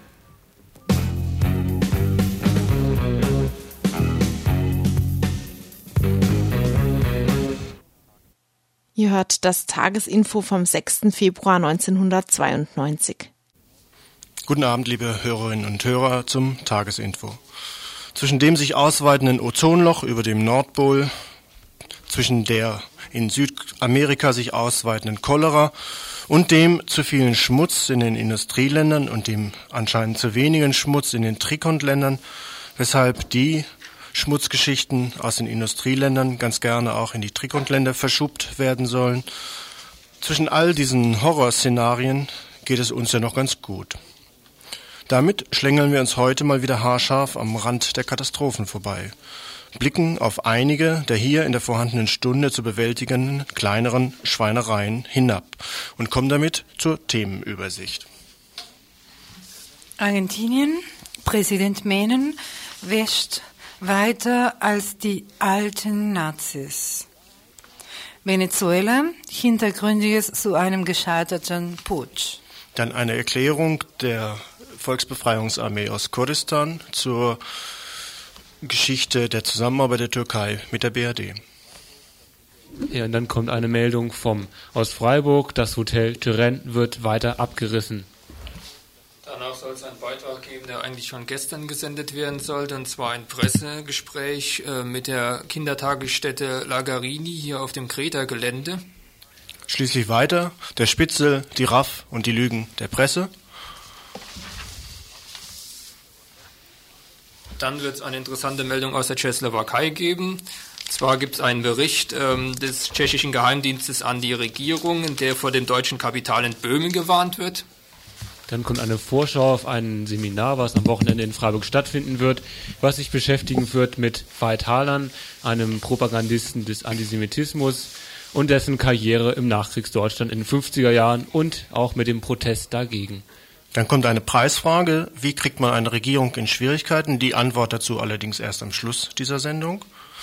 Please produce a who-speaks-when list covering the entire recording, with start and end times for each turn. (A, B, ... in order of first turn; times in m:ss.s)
0:09.0-0:13.3 A
0:14.5-0:17.4 B
0:18.1-0:21.1 B
0:22.1-0:32.2 B
0:32.8-0:39.2 B
0:40.2-0:44.0 B
0:45.1-0:49.1 B
0:49.7-0:58.1 B
1:00.0-1:07.1 C
1:08.2-1:12.4 C
1:12.7-1:17.7 B
1:18.6-1:21.4 B
1:22.9-1:28.1 D
1:29.2-1:38.8 E
1:39.7-1:43.3 B
1:47.6-1:57.6 E
1:58.5-2:13.2 D
2:13.7-2:19.8 B